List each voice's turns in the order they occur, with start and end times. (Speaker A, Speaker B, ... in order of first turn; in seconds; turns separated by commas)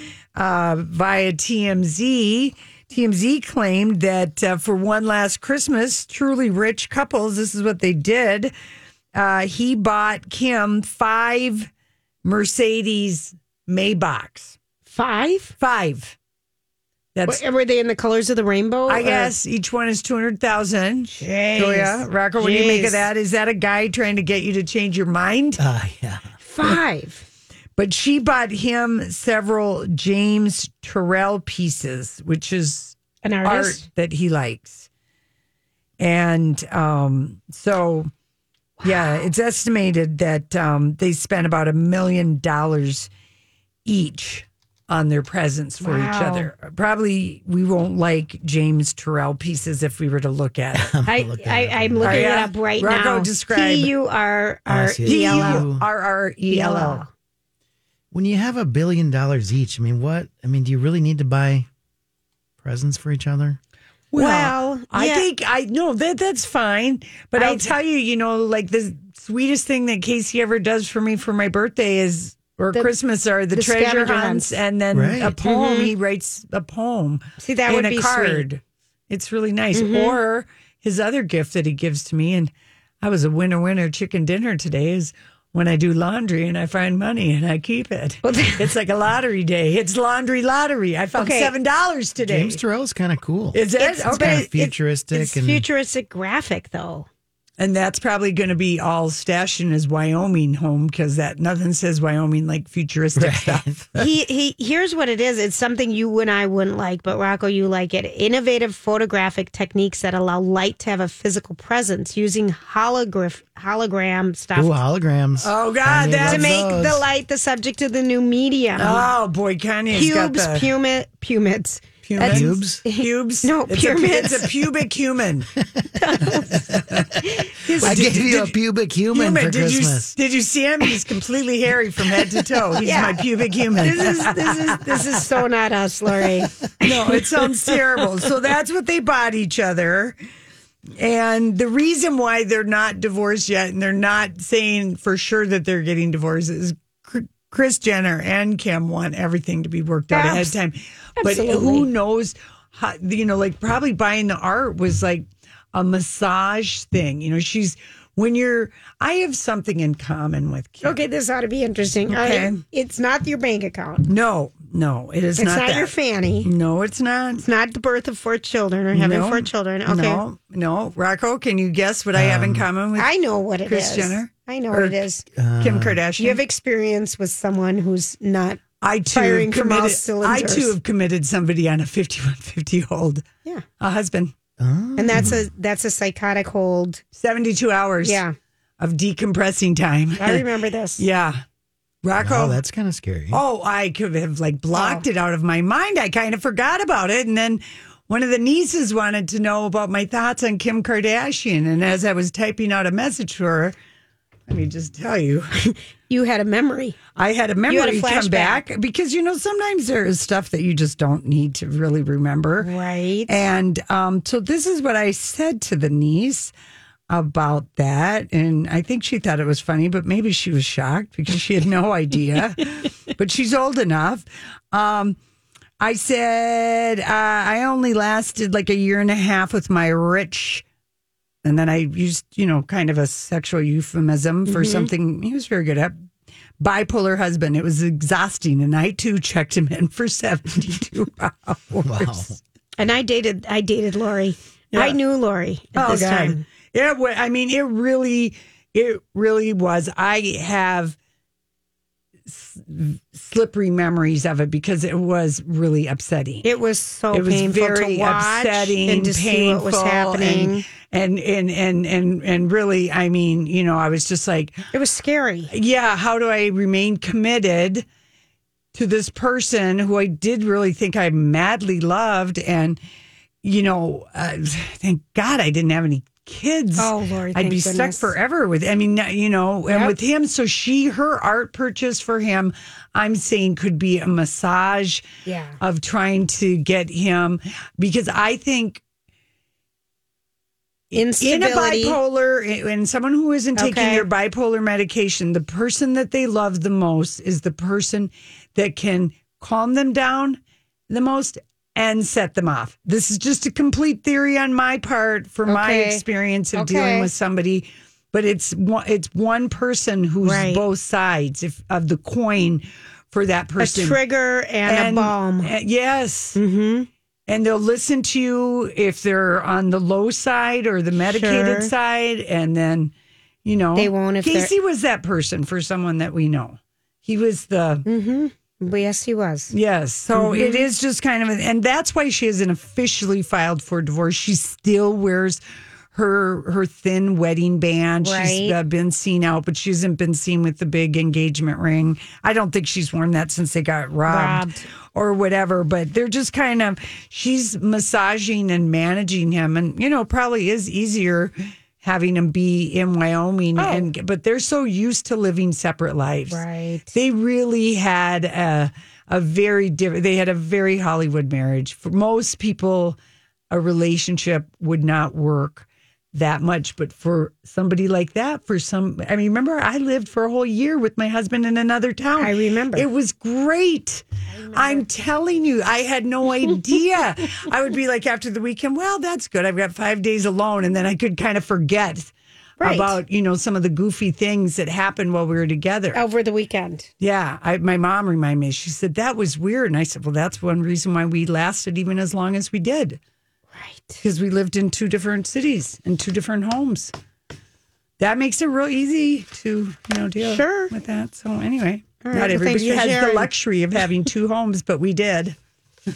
Speaker A: 0.3-8.5, Speaker A: 9.1-11.7, Speaker A: 12.2-14.6, Speaker B: 14.9-15.5, Speaker A: 15.6-16.1, Speaker A: 17.1-17.4, Speaker B: 17.3-19.3, Speaker A: 18.9-25.6, Speaker B: 21.2-23.0, Speaker C: 25.6-26.3, Speaker B: 26.4-27.2, Speaker A: 27.8-34.9, Speaker B: 33.2-33.8, Speaker A: 36.0-38.1, Speaker B: 38.8-39.2, Speaker A: 38.8-43.1, Speaker A: 43.9-50.9, Speaker B: 45.8-46.5, Speaker C: 50.7-52.4, Speaker B: 51.1-55.7, Speaker A: 52.0-53.9, Speaker C: 54.7-55.8, Speaker A: 55.0-57.0, Speaker B: 56.5-57.1, Speaker C: 58.1-61.7, Speaker C: 62.6-63.6, Speaker A: 64.1-82.5, Speaker B: 64.2-65.2, Speaker B: 67.4-67.7, Speaker B: 73.5-74.5, Speaker C: 74.9-75.4, Speaker B: 75.4-75.9, Speaker B: 77.4-78.4, Speaker B: 79.7-80.2, Speaker A: 83.0-92.6, Speaker B: 88.2-88.7, Speaker B: 91.1-91.5, Speaker C: 92.2-95.7, Speaker A: 93.5-94.5, Speaker B: 93.8-97.1, Speaker A: 97.6-103.9, Speaker C: 103.1-103.9, Speaker B: 104.0-114.8, Speaker C: 114.5-117.0, Speaker A: 115.4-116.6, Speaker B: 116.2-119.1, Speaker A: 118.8-120.7, Speaker B: 119.9-124.5, Speaker A: 122.0-125.5, Speaker C: 122.2-122.8, Speaker C: 125.8-126.6, Speaker B: 126.0-128.1, Speaker A: 127.7-128.5, Speaker C: 127.8-130.1, Speaker A: 129.1-135.0, Speaker B: 132.8-133.2, Speaker B: 133.8-137.2, Speaker A: 136.8-140.2, Speaker A: 141.0-161.0, Speaker B: 150.1-150.5, Speaker B: 151.2-151.9, Speaker B: 160.8-164.1, Speaker A: 162.1-162.6, Speaker A: 164.1-165.9, Speaker B: 165.4-166.5, Speaker A: 166.4-167.4, Speaker B: 167.4-170.2, Speaker A: 168.9-173.1, Speaker C: 172.1-172.7, Speaker B: 173.0-175.2, Speaker A: 173.6-175.0, Speaker C: 175.3-176.0, Speaker A: 175.6-176.4, Speaker B: 176.2-180.7, Speaker A: 178.8-183.2, Speaker A: 183.8-184.3, Speaker C: 184.6-185.4, Speaker B: 185.0-187.0, Speaker A: 187.1-188.2, Speaker B: 188.0-188.3, Speaker A: 188.8-190.4, Speaker B: 190.2-191.0, Speaker A: 191.0-191.4, Speaker A: 192.0-192.6, Speaker C: 192.2-193.4, Speaker A: 193.3-203.7, Speaker B: 194.7-195.0, Speaker A: 204.5-205.5, Speaker B: 205.6-207.0, Speaker A: 207.1-212.7, Speaker B: 207.7-208.6, Speaker B: 212.6-213.5, Speaker A: 213.3-216.5, Speaker A: 217.1-225.2, Speaker A: 225.8-230.6, Speaker A: 231.4-235.9, Speaker B: 234.5-234.9, Speaker A: 236.6-242.3, Speaker C: 241.8-242.4, Speaker B: 242.8-246.4, Speaker A: 245.7-250.9, Speaker A: 252.3-256.5, Speaker B: 256.4-260.6, Speaker A: 257.1-264.6, Speaker B: 264.7-265.5, Speaker A: 265.5-267.8, Speaker A: 268.7-272.8, Speaker A: 273.4-285.0, Speaker B: 276.8-278.1, Speaker B: 285.2-285.6, Speaker A: 285.6-288.8, Speaker A: 290.9-300.4, Speaker B: 290.9-292.0, Speaker B: 293.6-294.1, Speaker A: 300.9-314.0, Speaker B: 305.5-306.0, Speaker B: 306.5-307.1, Speaker B: 310.2-310.6, Speaker B: 313.6-315.5, Speaker A: 314.6-316.4, Speaker B: 316.3-316.9, Speaker A: 317.3-322.9, Speaker B: 321.1-321.7, Speaker A: 323.4-327.8, Speaker B: 323.8-324.5, Speaker B: 327.9-329.5, Speaker A: 329.5-335.4, Speaker B: 330.1-330.6, Speaker A: 335.9-363.0, Speaker B: 338.0-338.6, Speaker B: 344.1-344.6, Speaker B: 353.6-353.9, Speaker B: 356.3-356.9, Speaker A: 363.5-386.0, Speaker B: 372.2-372.9, Speaker B: 374.3-374.8, Speaker B: 382.6-383.0, Speaker B: 385.9-386.9, Speaker A: 387.0-393.0, Speaker B: 393.5-394.0, Speaker A: 394.0-396.9, Speaker A: 398.0-405.3, Speaker B: 400.2-400.7, Speaker B: 402.0-403.3